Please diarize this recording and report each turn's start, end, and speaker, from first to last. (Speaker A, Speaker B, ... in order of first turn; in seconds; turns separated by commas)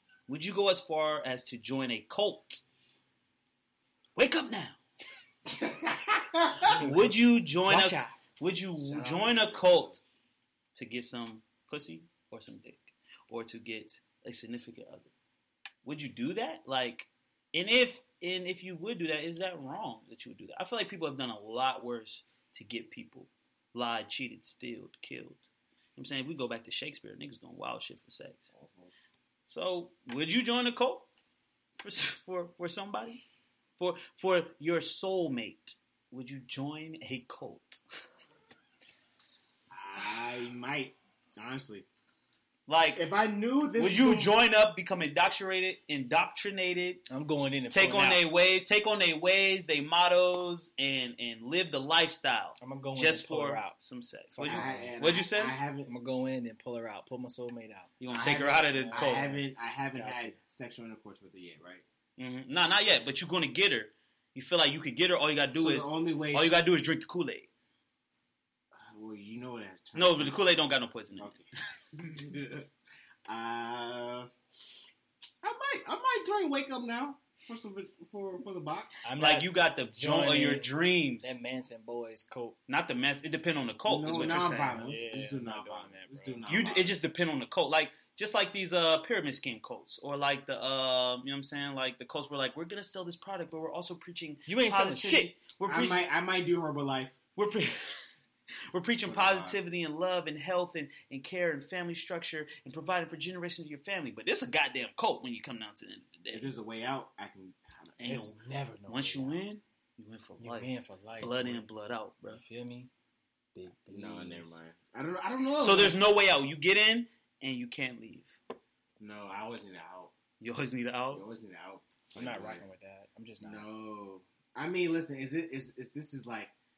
Speaker A: 0.3-2.6, Speaker A: 4.2-4.8, Speaker B: 5.5-6.9, Speaker A: 6.7-10.0, Speaker C: 6.7-8.2, Speaker B: 8.8-10.0, Speaker A: 10.8-15.1, Speaker A: 15.8-28.5, Speaker B: 28.5-28.9, Speaker A: 29.5-31.1, Speaker A: 31.8-33.2, Speaker A: 33.8-37.8, Speaker B: 39.7-41.9, Speaker A: 42.7-43.0, Speaker B: 42.9-44.4, Speaker A: 43.8-47.0, Speaker C: 47.1-48.2, Speaker A: 47.7-55.6, Speaker C: 52.6-53.8, Speaker C: 54.3-55.0, Speaker B: 54.4-55.9, Speaker C: 55.9-57.9, Speaker A: 58.0-59.3, Speaker B: 58.1-61.9, Speaker C: 58.7-60.4, Speaker A: 62.2-67.5, Speaker B: 65.5-66.6, Speaker B: 68.7-70.4, Speaker A: 70.0-71.4, Speaker B: 71.2-72.7, Speaker B: 73.3-74.3, Speaker B: 75.4-79.0, Speaker C: 79.0-82.6, Speaker A: 79.2-81.3, Speaker A: 82.7-84.8, Speaker B: 83.9-86.9, Speaker C: 84.8-86.4, Speaker A: 86.5-96.1, Speaker C: 94.5-95.3, Speaker B: 95.7-97.2, Speaker A: 97.4-98.1, Speaker A: 98.7-106.5, Speaker B: 99.0-99.6, Speaker B: 106.3-108.1, Speaker A: 108.0-108.4, Speaker C: 108.0-109.4, Speaker A: 108.9-112.4, Speaker C: 110.4-111.7, Speaker C: 112.3-112.9, Speaker C: 113.5-114.6, Speaker B: 113.9-116.0, Speaker A: 115.6-118.4, Speaker B: 119.0-120.1, Speaker A: 120.4-121.3, Speaker B: 121.1-122.6, Speaker C: 122.2-123.7, Speaker B: 123.4-126.5